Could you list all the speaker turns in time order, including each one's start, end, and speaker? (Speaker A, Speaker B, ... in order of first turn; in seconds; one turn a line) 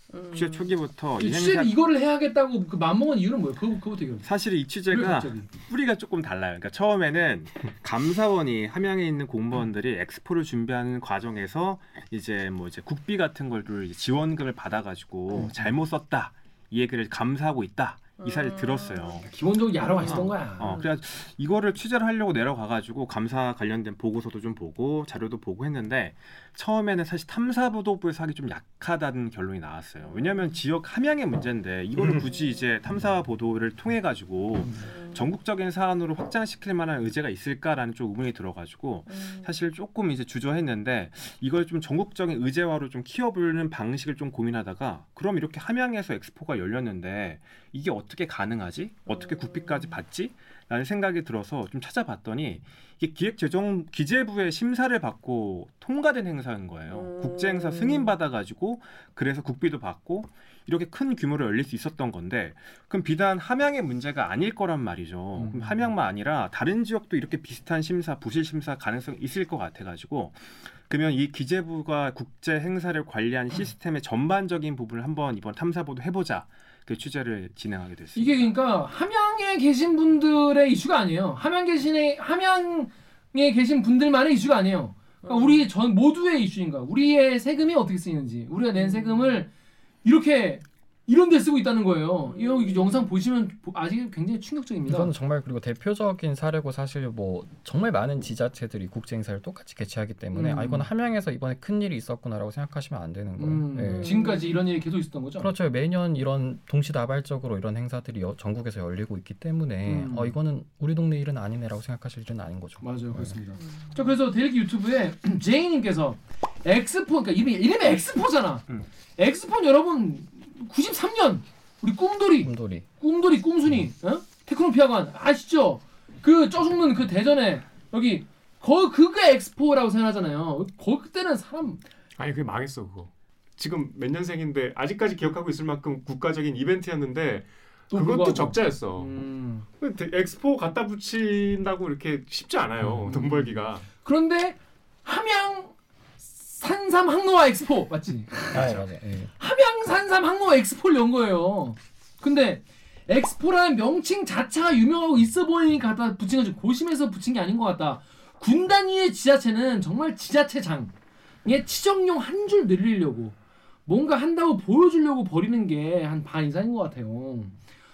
Speaker A: 0.1-0.7
Speaker B: 0.3-1.7
Speaker C: 1.2-4.3
Speaker B: 4.2-19.3
Speaker C: 4.9-5.5
Speaker C: 15.3-15.7
Speaker A: 18.2-19.2
Speaker C: 19.2-20.8
Speaker A: 19.9-20.9
Speaker B: 20.0-78.5
Speaker A: 30.0-30.6
Speaker A: 32.1-32.6
Speaker A: 34.8-35.2
Speaker A: 39.1-39.5
Speaker A: 49.1-50.0
Speaker A: 56.9-58.1
Speaker C: 65.3-65.7
Speaker C: 78.1-89.5
Speaker A: 85.2-85.7
Speaker A: 88.7-89.5
Speaker C: 90.0-95.1
Speaker A: 92.2-93.1
Speaker D: 94.9-104.2
Speaker C: 100.3-100.9
Speaker C: 103.4-105.5
Speaker A: 103.9-104.5
Speaker D: 105.4-113.4
Speaker C: 109.8-110.4
Speaker C: 112.8-131.8
Speaker A: 113.6-114.1
Speaker D: 122.4-122.8
Speaker E: 132.2-143.8
Speaker C: 137.9-139.7
Speaker C: 142.8-148.8
Speaker D: 148.5-149.3
Speaker C: 149.3-160.9
Speaker C: 161.4-167.6